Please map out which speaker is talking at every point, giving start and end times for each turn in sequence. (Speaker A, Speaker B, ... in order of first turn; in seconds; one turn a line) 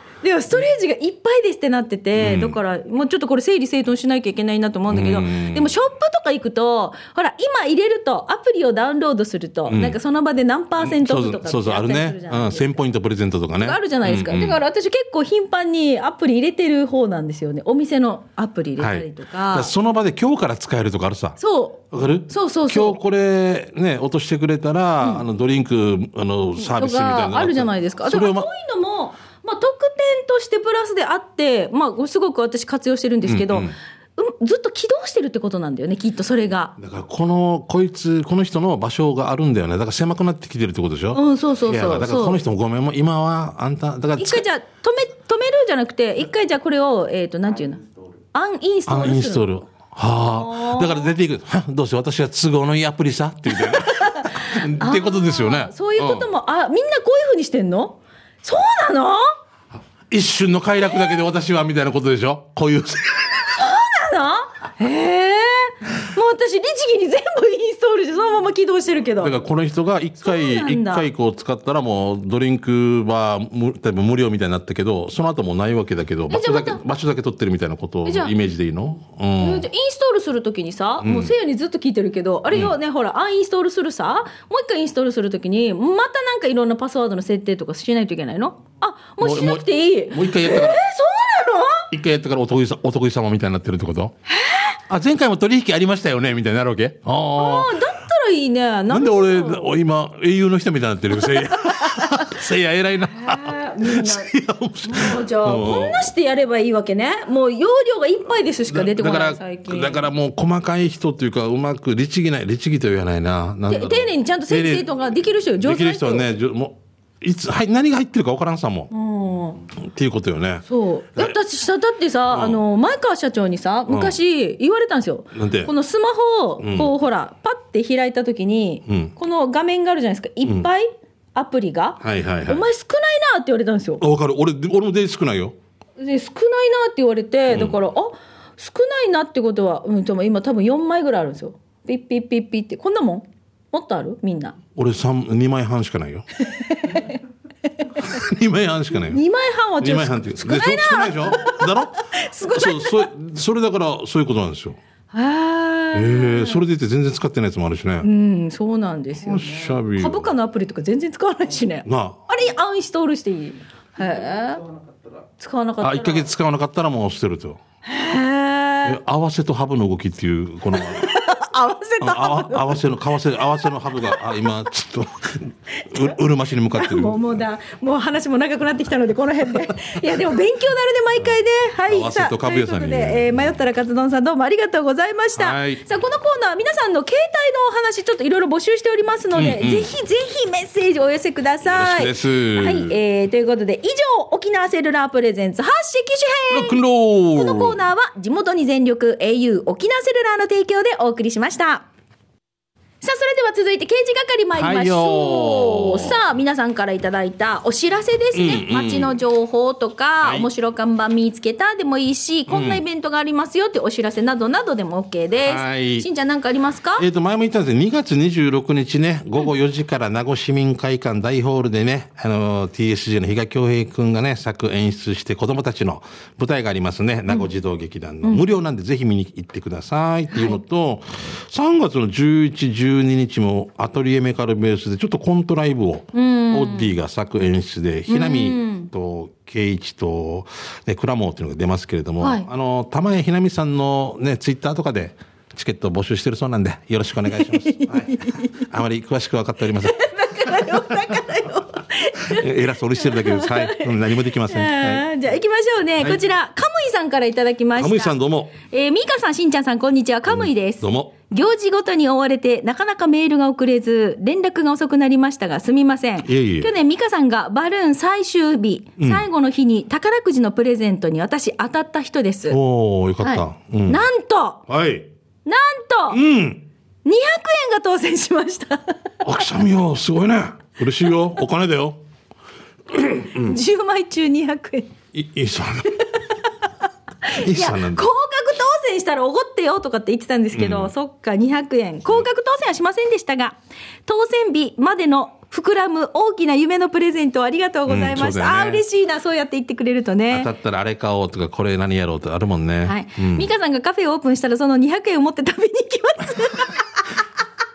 Speaker A: 0.2-12.8
Speaker B: 2.1-2.6
Speaker B: 4.9-5.7
Speaker B: 9.7-10.0
Speaker B: 10.8-14.6
Speaker A: 13.6-19.7
Speaker B: 18.8-21.4
Speaker A: 21.4-23.0
Speaker B: 21.9-28.5
Speaker A: 26.6-36.8
Speaker B: 33.3-33.7
Speaker B: 36.8-44.4
Speaker A: 41.1-42.4
Speaker A: 44.2-47.8
Speaker A: 48.3-49.4
Speaker B: 48.9-56.3
Speaker A: 50.3-51.1
Speaker A: 53.5-59.2
Speaker B: 60.1-63.6
Speaker A: 63.6-69.3
Speaker B: 69.2-79.7
Speaker A: 70.2-71.1
Speaker A: 76.3-76.8
Speaker A: 78.0-78.3
Speaker A: 79.4-91.9
Speaker B: 81.0-81.3
Speaker B: 89.2-90.8
Speaker B: 91.9-94.1
Speaker A: 94.3-94.8
Speaker B: 94.9-97.8
Speaker A: 97.4-99.7
Speaker B: 98.9-106.1
Speaker A: 101.8-102.3
Speaker A: 103.1-104.3
Speaker A: 104.8-110.1
Speaker B: 108.7-114.9
Speaker A: 113.7-116.3
Speaker B: 115.6-118.9
Speaker A: 118.9-119.6
Speaker B: 119.8-120.7
Speaker A: 120.7-134.0
Speaker B: 122.3-122.6
Speaker B: 123.9-124.2
Speaker B: 125.3-125.7
Speaker B: 126.6-126.9
Speaker B: 128.9-129.1
Speaker B: 132.0-132.7
Speaker B: 134.0-135.6
Speaker A: 136.0-144.6
Speaker B: 137.5-137.8
Speaker B: 144.8-146.2
Speaker A: 146.4-147.2
Speaker A: 147.8-148.2
Speaker B: 148.0-149.2
Speaker A: 149.1-153.1
Speaker B: 149.8-154.8
Speaker A: 155.1-156.6
Speaker B: 155.9-158.1
Speaker A: 158.0-164.7
Speaker B: 159.2-160.3
Speaker B: 161.8-162.2
Speaker A: 165.4-166.3
Speaker B: 165.8-167.6
Speaker A: 167.9-169.0
Speaker B: 168.8-171.1
Speaker A: 170.7-172.9
Speaker B: 172.0-177.4
Speaker A: 175.8-176.2
Speaker A: 176.7-196.8
Speaker B: 181.8-183.5
Speaker B: 185.4-185.8
Speaker B: 189.3-189.9
Speaker B: 191.6-193.0
Speaker B: 196.5-197.8
Speaker A: 197.3-201.9
Speaker A: 203.0-217.1
Speaker B: 204.6-206.2
Speaker B: 208.3-209.2
Speaker B: 210.2-210.5
Speaker B: 212.5-212.8
Speaker B: 215.4-216.1
Speaker B: 217.0-250.0
Speaker A: 230.3-230.6
Speaker A: 236.1-236.9
Speaker A: 238.1-238.9
Speaker A: 242.2-242.5
Speaker A: 247.3-248.6
Speaker A: 249.8-272.6
Speaker B: 252.2-255.1
Speaker B: 257.8-258.5
Speaker B: 260.3-261.1
Speaker B: 266.2-266.7
Speaker B: 269.0-269.3
Speaker B: 272.5-274.0
Speaker A: 273.2-274.6
Speaker B: 274.7-275.1
Speaker A: 275.4-276.2
Speaker B: 276.1-276.7
Speaker A: 277.1-279.0
Speaker B: 279.2-282.0
Speaker A: 283.0-284.9
Speaker B: 283.0-283.6
Speaker B: 285.1-286.0
Speaker A: 287.3-300.5
Speaker B: 287.3-288.1
Speaker B: 290.5-290.9
Speaker B: 297.9-298.8
Speaker B: 300.3-303.5
Speaker A: 302.9-307.0